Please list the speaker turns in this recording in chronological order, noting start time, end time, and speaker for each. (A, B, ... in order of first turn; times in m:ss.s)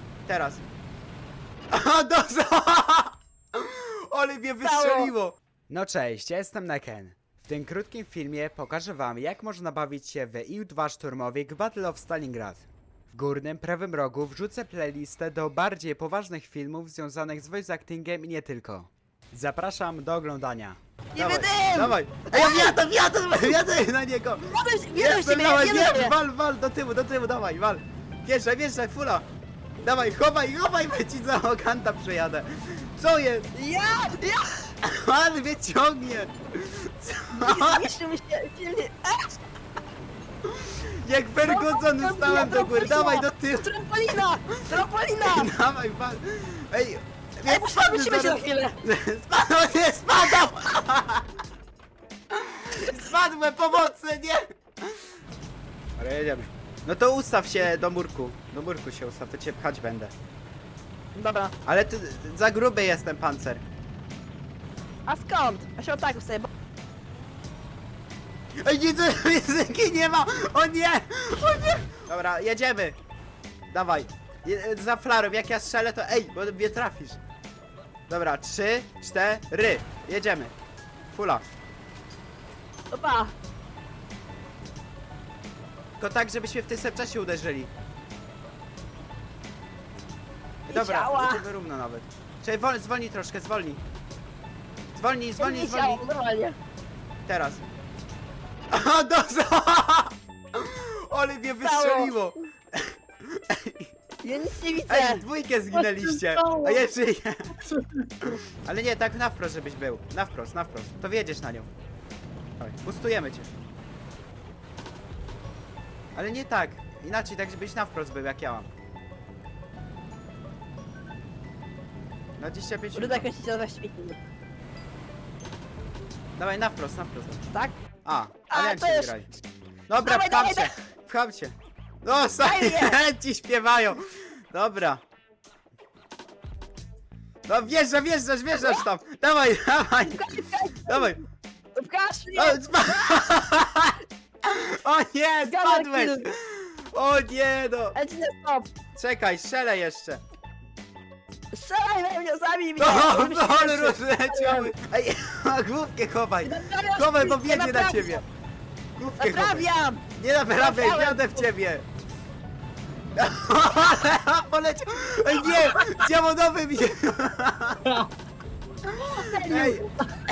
0:00.3-0:00.6 A
0:01.7-0:29.2 A
0:04.6-0:05.1 B
0:21.1-0:22.8 B
0:24.4-0:26.2 B
0:29.8-0:33.5 A
0:33.5-0:34.6 B
0:34.8-0:37.8 A
0:37.3-0:39.4 B
0:40.5-0:43.7 A
0:41.4-0:45.5 B
0:44.5-0:51.2 A
0:47.5-0:48.8 B
0:52.3-0:55.0 A
0:56.0-1:00.1 A
1:01.2-1:01.5 B
1:01.7-1:03.6 A
1:05.1-1:06.5 B
1:08.6-1:13.0 A
1:13.7-1:17.2 A
1:18.1-1:20.5 A
1:21.1-1:21.4 A
1:22.9-1:23.3 B
1:26.0-1:27.7 A
1:30.7-1:33.8 A
1:30.7-1:31.4 B
1:34.9-1:36.0 A
1:35.4-1:36.6 B
1:37.3-1:37.6 A
1:38.7-1:43.9 A
1:41.6-1:42.3 B
1:44.2-1:46.8 B
1:44.9-1:47.4 A
1:48.2-1:51.7 A
1:52.6-1:53.5 A
1:56.2-1:58.7 A
2:02.4-2:03.3 A
2:02.9-2:04.2 B
2:06.4-2:07.4 A
2:08.0-2:09.3 A
2:08.5-2:09.1 B
2:09.9-2:15.0 A
2:10.0-2:10.7 B
2:12.4-2:12.9 B
2:17.5-2:20.3 A
2:18.5-2:18.8 B
2:20.0-2:21.2 B
2:20.8-2:21.2 A
2:21.8-2:23.2 B
2:22.4-2:28.0 A
2:25.4-2:26.3 B
2:28.0-2:28.7 B
2:29.0-2:30.2 A
2:31.5-2:34.7 B
2:32.8-2:38.2 A
2:36.4-2:38.2 B
2:39.0-2:41.9 A
2:39.2-2:40.0 B
2:40.6-2:41.5 B
2:43.2-2:48.0 A
2:49.0-2:50.1 B
2:49.5-2:49.9 A